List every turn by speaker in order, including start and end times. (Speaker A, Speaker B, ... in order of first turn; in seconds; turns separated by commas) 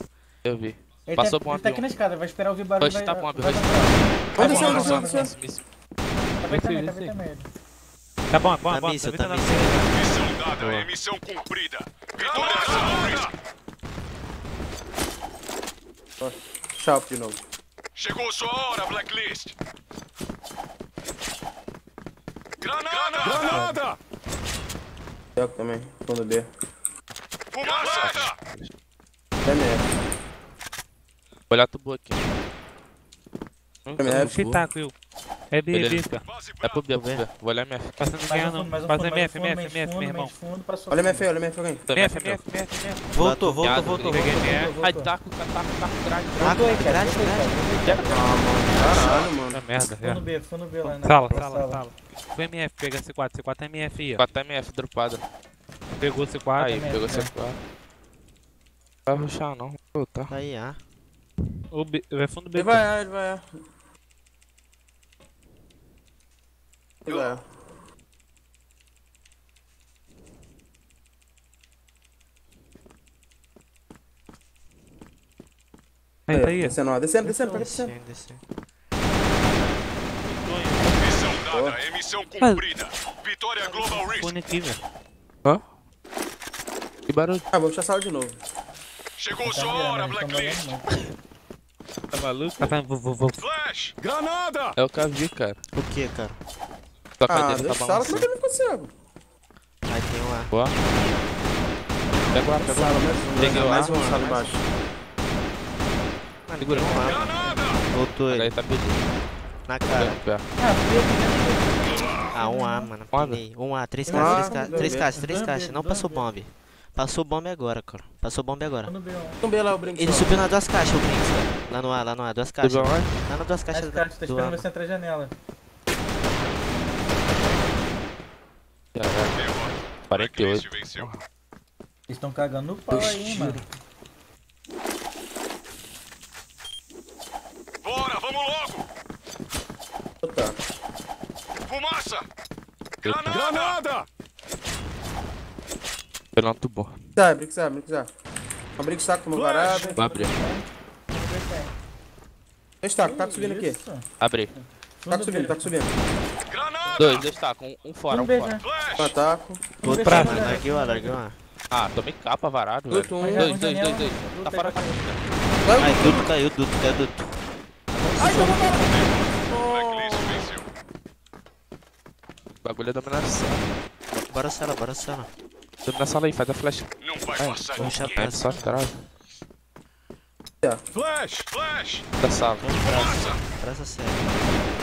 Speaker A: 0.4-1.9, Speaker B: 1.1-5.3, Speaker A: 2.8-5.6, Speaker C: 4.3-5.3, Speaker B: 6.4-7.5, Speaker D: 6.5-7.2, Speaker D: 8.3-9.9, Speaker E: 8.7-9.9, Speaker F: 9.9-13.3, Speaker C: 16.2-17.4, Speaker F: 17.9-19.5, Speaker F: 22.6-23.9, Speaker B: 23.4-23.8, Speaker C: 25.4-26.5, Speaker F: 27.5-28.4, Speaker A: 27.8-28.7, Speaker C: 29.4-29.9, Speaker A: 31.5-32.2, Speaker A: 33.8-34.3, Speaker C: 34.0-34.6, Speaker D: 34.0-34.9, Speaker D: 35.5-36.2, Speaker A: 35.7-36.1, Speaker F: 36.2-36.8, Speaker A: 36.6-38.1, Speaker E: 36.9-37.2, Speaker D: 38.0-40.3, Speaker B: 38.3-41.3, Speaker C: 40.9-41.8, Speaker A: 41.9-42.4, Speaker D: 41.9-44.7, Speaker E: 43.1-44.0, Speaker A: 43.6-44.2, Speaker B: 43.9-45.1, Speaker A: 44.8-46.9, Speaker E: 46.4-47.5, Speaker B: 46.4-48.3, Speaker A: 47.8-49.3, Speaker C: 48.1-49.6, Speaker D: 49.5-50.2, Speaker B: 49.8-51.9, Speaker D: 50.8-54.2, Speaker A: 54.2-55.2, Speaker D: 56.0-56.8, Speaker A: 56.6-57.6, Speaker B: 56.6-57.3, Speaker A: 59.1-60.3, Speaker E: 60.3-60.8, Speaker D: 61.7-62.9, Speaker C: 62.5-63.5, Speaker C: 67.0-67.4, Speaker D: 76.3-76.8, Speaker C: 76.3-77.9, Speaker E: 77.5-78.4, Speaker D: 80.2-81.0, Speaker F: 80.9-84.3, Speaker C: 81.5-81.8, Speaker D: 83.6-84.8, Speaker A: 87.1-87.4, Speaker C: 87.5-88.4, Speaker F: 89.2-90.8, Speaker B: 89.4-90.9, Speaker A: 92.1-92.8, Speaker D: 92.6-93.4, Speaker F: 93.4-94.7, Speaker A: 94.8-95.6, Speaker E: 95.7-96.4, Speaker A: 97.2-98.3, Speaker C: 97.3-98.9, Speaker E: 99.9-100.5, Speaker A: 102.3-104.5, Speaker E: 102.6-104.5, Speaker C: 102.6-104.6, Speaker E: 106.5-108.5, Speaker A: 106.6-107.2, Speaker B: 106.8-107.6, Speaker F: 107.0-107.8, Speaker A: 108.3-109.1, Speaker E: 109.7-110.2, Speaker A: 109.8-110.4, Speaker B: 110.6-112.9, Speaker E: 112.3-118.9, Speaker A: 113.1-113.4, Speaker B: 114.0-116.3, Speaker C: 114.1-115.1, Speaker B: 118.8-119.4, Speaker C: 119.4-120.3, Speaker E: 120.0-124.7, Speaker A: 122.6-123.1, Speaker B: 123.7-125.3, Speaker A: 128.9-129.3, Speaker F: 129.3-131.1, Speaker A: 130.1-131.2, Speaker B: 132.1-133.7, Speaker A: 132.9-133.7, Speaker F: 137.8-138.8, Speaker C: 140.2-140.6, Speaker F: 141.7-142.2, Speaker F: 143.0-144.1, Speaker A: 143.0-143.4, Speaker A: 146.3-146.9, Speaker C: 147.2-148.1, Speaker C: 148.8-149.9, Speaker F: 149.3-150.0, Speaker B: 149.6-151.8, Speaker A: 149.8-150.3, Speaker C: 152.8-153.8, Speaker B: 153.0-155.7, Speaker A: 154.2-154.5, Speaker C: 155.1-155.9, Speaker F: 156.5-157.3, Speaker A: 157.0-158.6, Speaker B: 158.1-158.6, Speaker F: 158.6-159.1, Speaker C: 159.0-159.8, Speaker B: 159.8-161.2, Speaker E: 159.8-161.4, Speaker D: 159.9-160.6, Speaker A: 161.7-165.2, Speaker C: 162.9-163.5, Speaker B: 163.2-165.1, Speaker C: 165.6-166.2, Speaker E: 165.8-167.3, Speaker E: 167.9-168.8, Speaker F: 168.7-170.7, Speaker A: 172.6-173.7, Speaker E: 174.1-175.3, Speaker A: 175.8-179.0, Speaker F: 177.0-178.4, Speaker E: 177.8-178.8, Speaker F: 180.9-182.0, Speaker A: 182.2-182.7, Speaker E: 182.6-184.4, Speaker F: 182.8-183.4